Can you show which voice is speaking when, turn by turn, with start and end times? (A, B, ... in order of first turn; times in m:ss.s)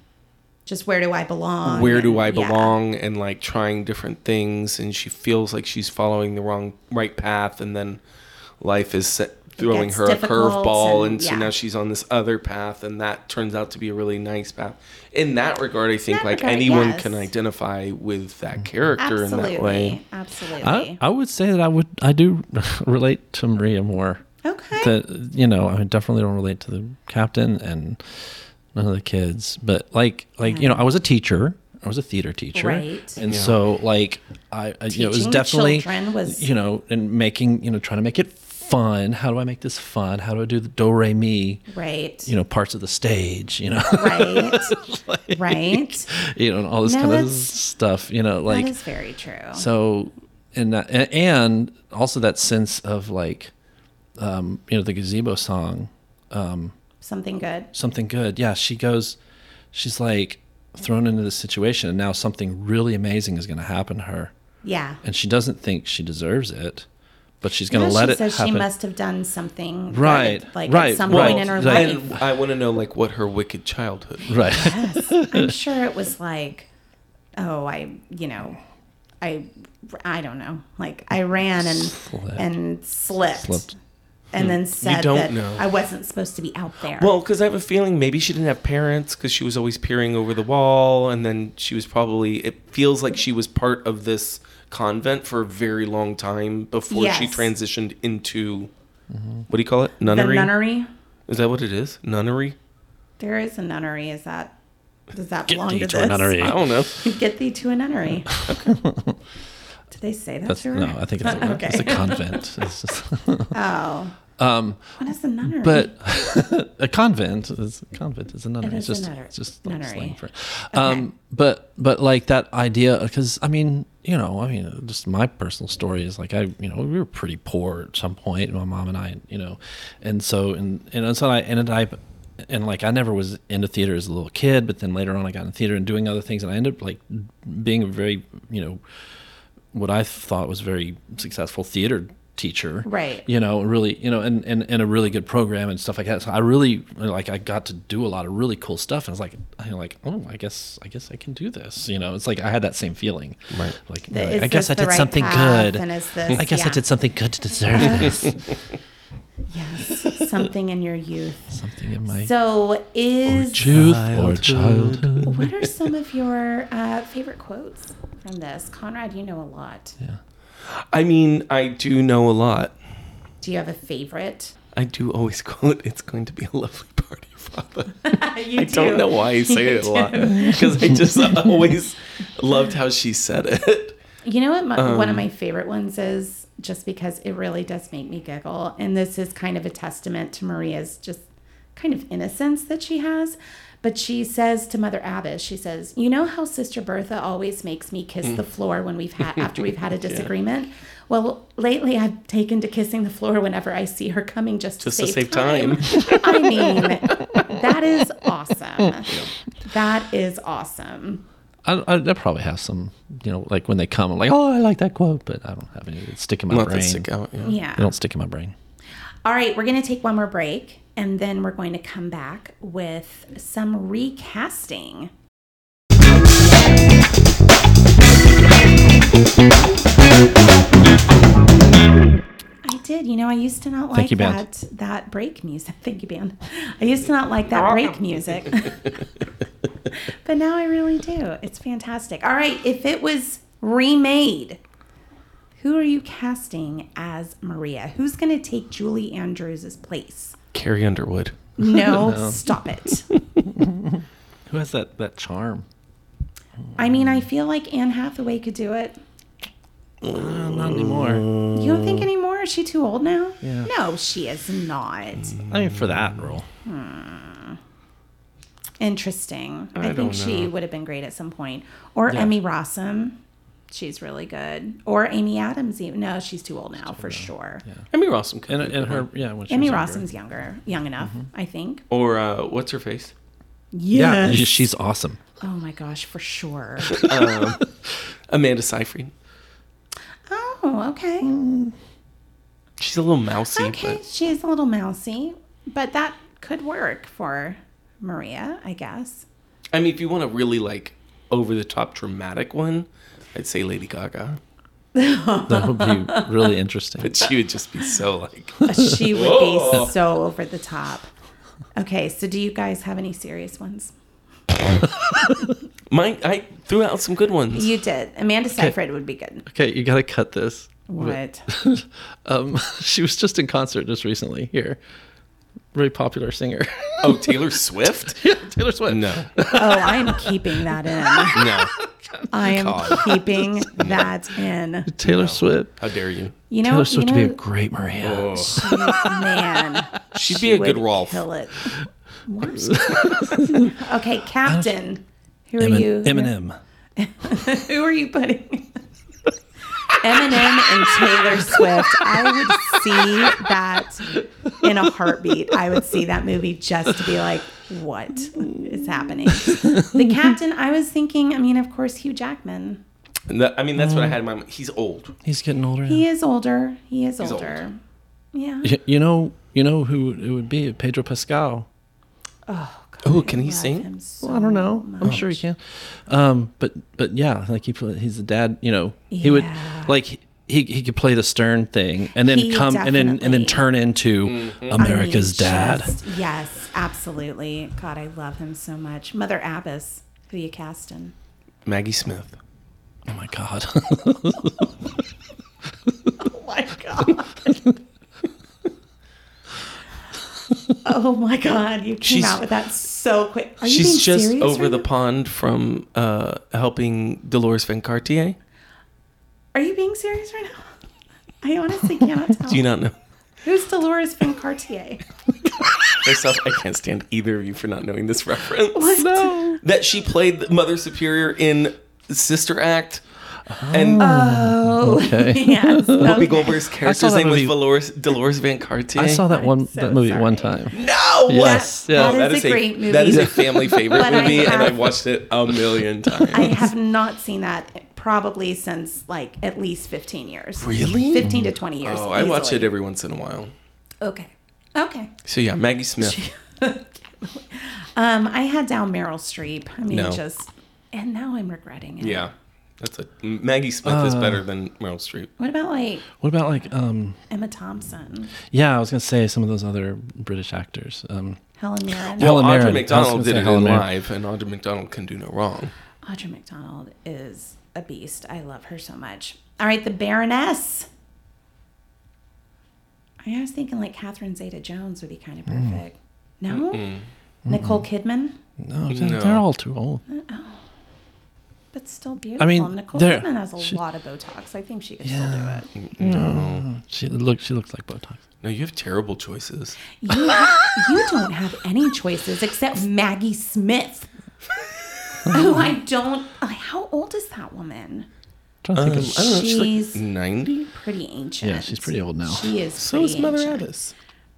0:00.6-0:02.8 A
0:01.6-0:08.0 B
0:08.6-0:20.0 B
0:09.6-0:11.5 A
0:16.1-0:17.3 A
0:19.0-0:21.0 A
0:20.6-0:24.2 C
0:24.4-0:25.0 A
0:24.8-0:28.2 C
0:28.7-0:41.7 C
0:30.4-0:30.8 A
0:32.5-0:33.2 A
0:33.2-0:33.6 B
0:34.9-0:36.4 A
0:41.7-0:42.3 A
0:42.2-0:48.7 C
0:43.9-0:44.7 A
0:45.3-0:46.1 A
0:46.8-0:47.5 A
0:48.5-0:49.6 A
0:49.5-0:53.5 C
0:54.2-0:56.7 C
0:57.0-0:57.7 A
0:57.7-0:59.2 C
0:59.7-1:04.3 C
1:04.6-1:05.0 A
1:05.0-1:06.8 C
1:07.4-1:08.7 C
1:07.7-1:12.1 A
1:09.9-1:12.2 C
1:11.1-1:14.4 B
1:14.3-1:16.7 A
1:14.3-1:15.5 C
1:17.4-1:18.6 A
1:19.2-1:23.7 A
1:21.6-1:22.5 C
1:23.3-1:23.7 C
1:24.3-1:27.1 A
1:24.4-1:25.6 B
1:27.0-1:38.7 B
1:36.9-1:37.5 A
1:39.1-1:39.4 C
1:39.5-1:40.5 B
1:40.0-1:40.9 A
1:41.3-1:42.6 B
1:43.2-1:44.5 A
1:45.1-1:48.7 A
1:45.5-1:46.6 C
1:46.4-1:47.0 B
1:48.3-1:49.2 C
1:49.9-1:52.4 A
1:50.5-1:53.6 C
1:53.5-1:54.1 A
1:54.4-2:18.8 C
1:55.0-1:55.9 A
1:58.6-2:00.2 A
2:00.7-2:01.1 A
2:19.7-2:38.3 C
2:22.8-2:23.2 A
2:34.1-2:36.8 A
2:37.7-2:38.2 A
2:38.1-2:38.5 B
2:39.5-2:41.5 A
2:41.5-2:42.3 C
2:42.1-2:43.6 A
2:43.3-2:45.6 B
2:43.6-2:45.5 C
2:45.2-2:50.0 A
2:50.6-2:52.8 B
2:53.4-2:54.5 A
2:54.7-3:04.0 B
2:58.0-3:01.4 A
3:04.2-3:29.1 A
3:04.8-3:05.3 B
3:19.4-3:20.3 B
3:24.8-3:26.4 B
3:29.6-3:31.2 A
3:31.6-3:37.1 C
3:36.5-3:37.6 B
3:37.4-3:37.9 A
3:37.7-3:38.5 C
3:39.2-3:45.1 A
3:52.6-3:59.0 A
3:53.9-3:54.4 C
3:57.5-3:58.9 B
4:00.2-4:04.6 A
4:05.6-4:10.4 A
4:10.5-4:11.4 B
4:11.6-4:13.1 A
4:11.8-4:12.4 C
4:13.5-4:15.6 C
4:16.8-4:19.0 A
4:20.0-4:22.0 B
4:20.0-4:21.3 C
4:21.5-4:25.4 A
4:23.4-4:23.7 C
4:25.2-4:26.3 B
4:25.5-4:26.5 C
4:26.6-4:27.6 A
4:28.8-4:33.2 A
4:29.8-4:30.5 B
4:33.7-4:37.6 A
4:36.8-4:37.8 C
4:37.9-4:39.1 B
4:38.5-4:40.0 C
4:39.5-4:41.8 A
4:41.9-4:43.1 B
4:43.7-4:44.7 A
4:43.9-4:45.2 C
4:45.4-4:47.2 A
4:46.9-4:47.6 B
4:46.9-4:47.7 C
4:48.3-4:49.1 B
4:50.3-4:51.4 A
4:51.2-4:51.7 C
4:52.8-4:54.0 B
4:53.5-4:59.2 A
4:59.7-5:04.4 B
5:04.9-5:06.5 A
5:05.5-5:07.3 C
5:07.0-5:09.9 B
5:08.6-5:11.1 A
5:11.8-5:13.9 A
5:15.9-5:17.7 B
5:17.5-5:19.4 A
5:19.5-5:24.8 C
5:20.9-5:21.5 A
5:25.7-5:27.4 C
5:27.0-5:28.2 B
5:28.0-5:31.6 C
5:28.9-5:29.4 B
5:29.5-5:31.4 A
5:31.3-5:31.7 B
5:32.2-5:33.3 C
5:32.3-5:34.9 A
5:32.4-5:33.1 B
5:33.8-5:34.1 B
5:34.9-5:35.8 C
5:35.0-5:36.3 B
5:36.5-5:37.4 A
5:36.6-5:39.8 C
5:38.0-5:38.6 B
5:38.4-5:46.3 A
5:40.1-5:41.2 B
5:42.5-5:43.8 C
5:44.5-5:44.7 C
5:45.6-5:46.6 C
5:47.0-5:48.8 A
5:49.9-6:02.8 A
5:52.0-5:52.7 C
5:59.4-6:00.2 C
6:03.3-6:05.2 B
6:03.8-6:04.2 C
6:05.2-6:06.0 C
6:05.8-6:07.8 A
6:07.2-6:07.6 B
6:08.3-6:08.7 A
6:08.6-6:11.7 C
6:12.5-6:15.4 A
6:13.0-6:13.9 B
6:14.2-6:26.0 C
6:19.1-6:19.9 A
6:22.1-6:23.6 A
6:24.2-6:24.8 B
6:24.8-6:31.1 A
6:31.6-6:32.4 B
6:33.1-6:34.7 C
6:36.2-6:37.7 A
6:40.8-6:44.8 A
6:42.0-6:42.4 B
6:43.6-6:48.4 B
6:49.5-6:50.7 A
6:51.4-6:52.7 A
6:52.4-6:52.9 B
6:53.4-6:55.0 A
6:56.0-7:03.0 B
6:58.7-6:59.5 A
6:59.0-6:59.6 C
7:03.5-7:07.5 C
7:03.7-7:04.1 B
7:04.0-7:06.6 A
7:06.0-7:09.2 B
7:08.9-7:12.2 C
7:09.3-7:10.8 A
7:10.7-7:16.6 B
7:11.3-7:15.0 A
7:13.5-7:14.4 C
7:16.3-7:22.7 A
7:20.6-7:21.3 B
7:21.2-7:21.5 C
7:21.8-7:23.5 B
7:24.0-7:25.1 A
7:25.2-7:26.2 B
7:26.0-7:32.3 A
7:29.9-7:30.2 B
7:32.0-7:35.3 B
7:33.8-7:34.4 C
7:35.4-7:36.0 A
7:36.2-7:37.2 C
7:37.3-7:38.3 A
7:38.5-7:41.4 C
7:41.6-7:42.3 A
7:42.1-7:43.9 C
7:42.2-7:45.7 B
7:46.0-7:50.9 A
7:53.2-7:56.9 A
7:55.5-7:55.8 C
7:56.5-7:57.0 B
7:57.5-7:57.8 C
7:57.5-7:58.4 A
7:58.6-8:00.0 C
7:58.9-7:59.4 B
8:00.1-8:00.6 A
8:01.7-8:05.7 A
8:02.4-8:03.8 C
8:05.0-8:08.2 C
8:05.8-8:06.7 B
8:08.4-8:09.8 B
8:10.0-8:14.1 A
8:15.3-8:15.5 C
8:15.3-8:18.1 A
8:18.6-8:19.5 C
8:18.7-8:20.7 B
8:18.9-8:20.0 A
8:20.6-8:23.6 A
8:21.4-8:22.5 C
8:22.8-8:23.9 B